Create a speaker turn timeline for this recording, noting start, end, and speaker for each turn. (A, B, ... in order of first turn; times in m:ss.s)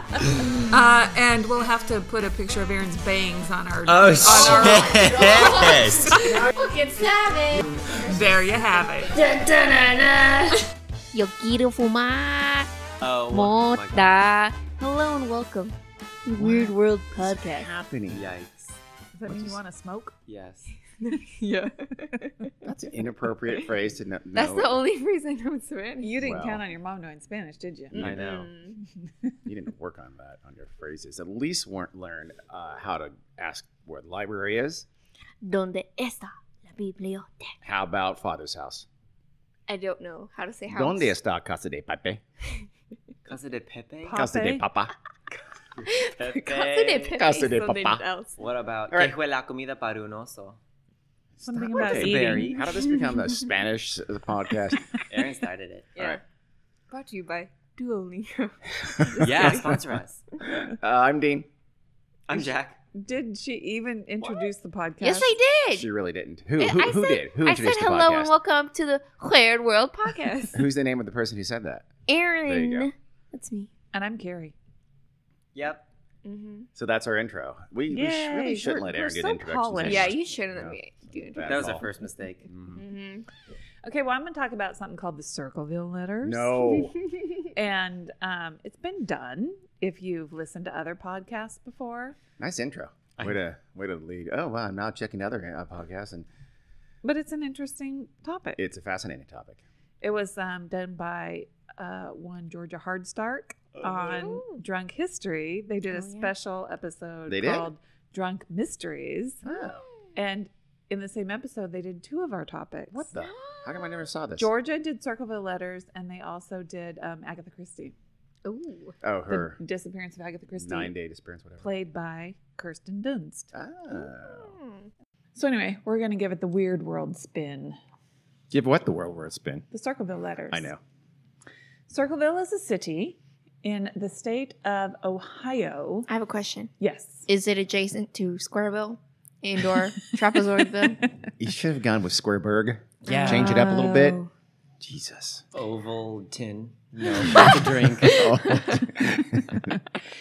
0:00.6-0:06.5 A
0:03.8-0:06.2 B
0:04.3-0:08.3 C
0:08.0-0:09.1 A
0:09.1-0:10.6 C
0:11.1-0:12.7 D
0:13.0-0:14.3 B
0:13.3-0:17.7 D
0:16.4-0:18.3 E
0:18.1-0:18.8 B
0:19.1-0:20.1 A
0:19.3-0:19.6 E
0:20.3-0:20.7 B
0:21.0-0:22.5 D
0:22.6-0:24.8 E
0:24.3-0:26.1 D
0:26.0-0:28.0 A
0:26.2-0:26.6 E
0:27.9-0:28.2 E
0:28.0-0:28.5 B
0:28.1-0:28.8 D
0:29.4-0:34.8 E
0:35.4-0:37.5 D
0:37.6-0:38.8 E
0:39.7-0:41.1 D
0:40.7-0:42.2 E
0:43.2-0:44.2 B
0:44.0-0:44.6 A
0:44.1-0:44.9 E
0:45.8-0:47.2 B
0:45.8-0:48.4 D
0:47.1-0:48.0 E
0:48.4-0:50.6 B
0:51.4-0:54.9 E
0:51.4-0:52.6 A
0:51.8-0:52.6 B
0:52.8-0:53.1 D
0:55.1-0:56.1 B
0:56.9-0:59.5 D
0:58.9-0:59.6 E
0:59.2-1:00.2 B
1:00.6-1:01.5 E
1:02.3-1:02.8 B
1:02.9-1:05.3 A
1:05.0-1:05.9 D
1:05.7-1:08.3 E
1:06.6-1:10.6 D
1:10.5-1:11.9 E
1:12.1-1:13.7 D
1:12.4-1:12.9 E
1:13.9-1:14.5 A
1:15.5-1:15.8 B
1:16.2-1:16.7 D
1:16.8-1:21.9 E
1:17.9-1:20.1 A
1:19.8-1:21.8 D
1:21.4-1:22.4 B
1:22.5-1:22.8 E
1:22.7-1:23.3 D
1:23.8-1:26.6 A
1:26.2-1:27.0 E
1:27.5-1:32.2 A
1:32.4-1:36.3 E
1:37.0-1:38.6 A
1:38.6-1:39.6 E
1:40.0-1:49.4 A
1:44.0-1:44.6 D
1:45.9-1:46.3 D
1:47.3-1:47.7 E
1:49.4-1:49.8 E
1:50.1-1:53.1 A
1:52.9-1:54.5 E
1:53.2-1:53.7 D
1:54.4-1:57.9 A
1:58.4-1:58.9 D
1:59.0-1:59.6 E
1:59.3-2:00.9 A
2:00.6-2:01.6 E
2:01.6-2:03.5 A
2:03.5-2:04.5 E
2:05.3-2:07.8 A
2:08.5-2:09.6 E
2:09.7-2:10.7 A
2:10.5-2:10.8 E
2:11.9-2:16.1 A
2:16.1-2:16.7 D
2:16.8-2:17.3 A
2:17.3-2:21.0 D
2:21.4-2:24.2 E
2:23.1-2:24.3 D
2:23.1-2:23.5 A
2:24.8-2:25.4 E
2:25.5-2:28.1 B
2:27.0-2:29.8 E
2:27.3-2:28.8 D